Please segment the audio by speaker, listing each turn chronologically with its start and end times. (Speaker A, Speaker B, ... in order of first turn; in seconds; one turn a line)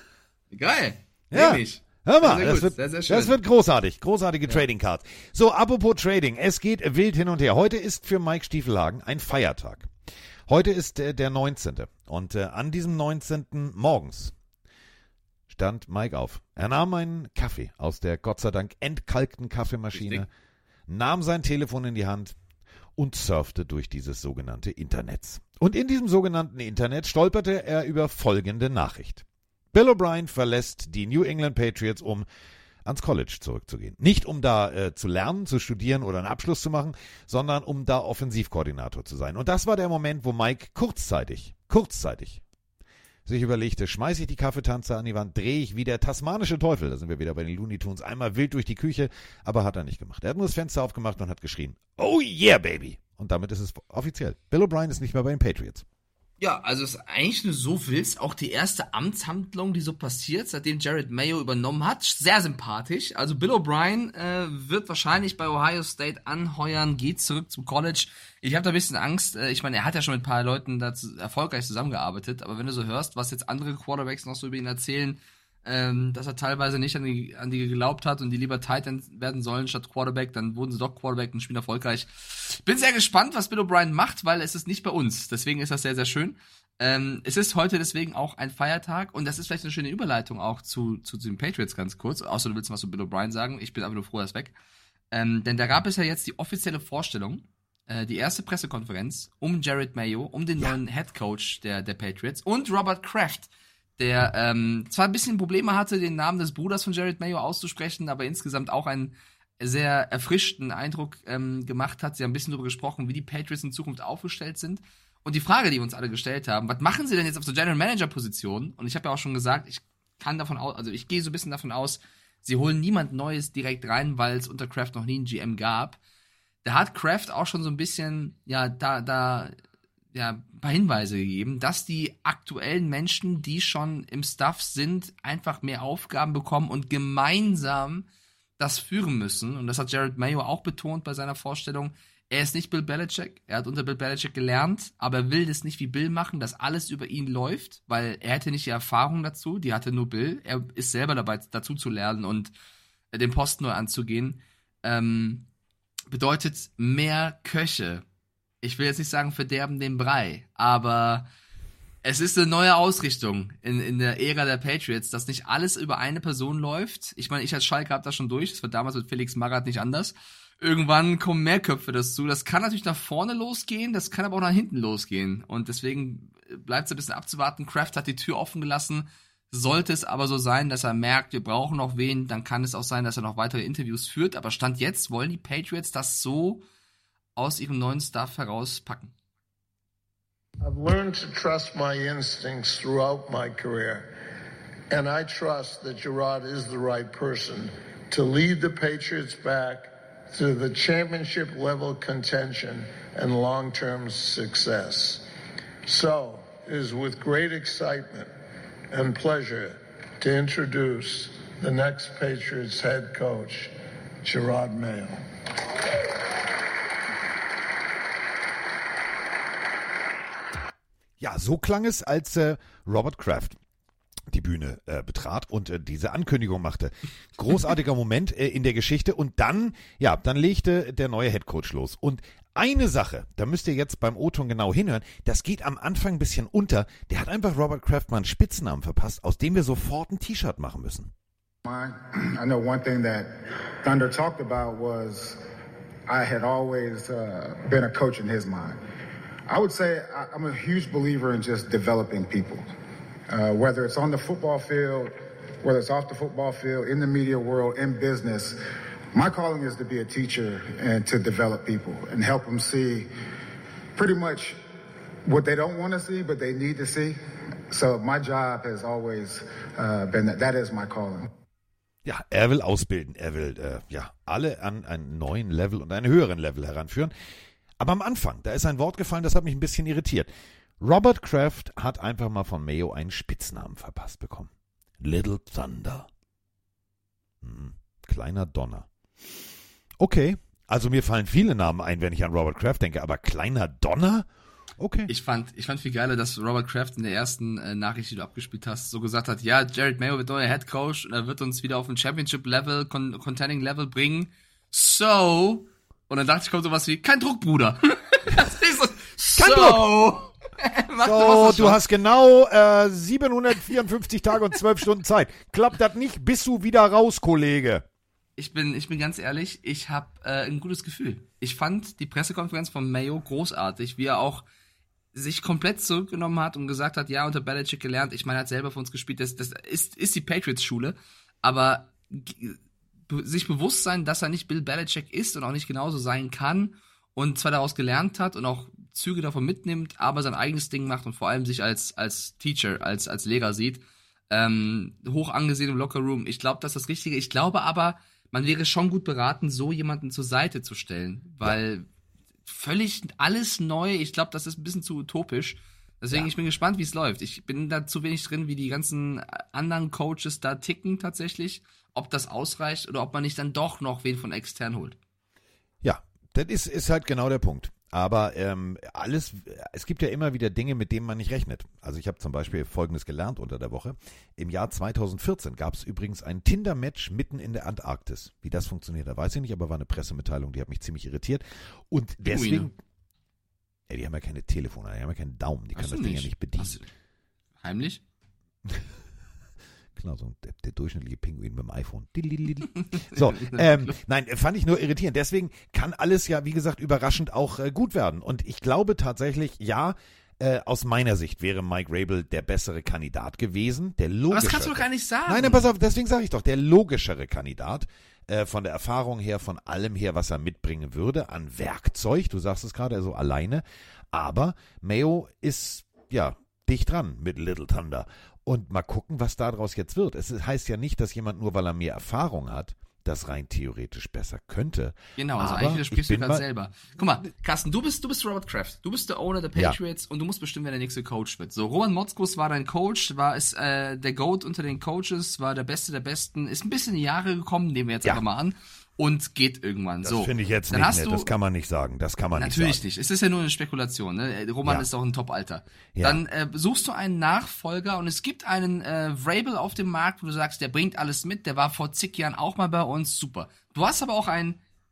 Speaker A: 0.5-3.3
Speaker B: 1.3-9.9
Speaker B: 10.5-14.3
Speaker B: 15.5-20.3
Speaker A: 19.9-20.2
Speaker B: 20.9-22.4
Speaker B: 22.9-32.3
Speaker B: 32.8-42.4
Speaker B: 43.2-55.8
Speaker A: 56.4-94.5
Speaker A: 95.1-126.0
Speaker A: 126.6-129.6
Speaker A: 130.1-138.1
Speaker A: 138.6-152.5
Speaker A: 153.1-155.4
Speaker A: 156.1-158.0
Speaker A: 158.6-161.3
Speaker A: 162.0-186.6
Speaker A: 187.3-189.1
Speaker C: 190.6-194.2
Speaker C: 194.9-205.3
Speaker C: 205.8-208.3
Speaker C: 208.9-215.2
Speaker B: 221.2-223.6
Speaker B: 224.3-241.1
Speaker D: 241.6-245.4
Speaker D: 246.1-248.8
Speaker D: 249.5-252.6
Speaker D: 253.3-258.6
Speaker D: 259.1-263.1
Speaker D: 263.9-264.6
Speaker D: 265.2-271.3
Speaker B: 272.0-286.1
Speaker B: 287.4-289.4
Speaker B: 290.0-294.3
Speaker B: 294.8-295.1
Speaker A: 295.1-311.8
Speaker B: 309.4-309.9
Speaker B: 311.0-317.8
Speaker A: 318.4-324.4
Speaker A: 325.1-351.9
Speaker A: 352.5-365.0
Speaker B: 365.8-382.8
Speaker A: 382.2-382.7
Speaker B: 383.9-386.8
Speaker A: 385.7-386.9
Speaker A: 387.6-388.0
Speaker B: 389.9-426.4
Speaker A: 392.7-394.0
Speaker A: 404.3-405.7
Speaker A: 425.2-441.3
Speaker B: 440.0-442.8
Speaker A: 442.3-454.6
Speaker B: 445.9-446.2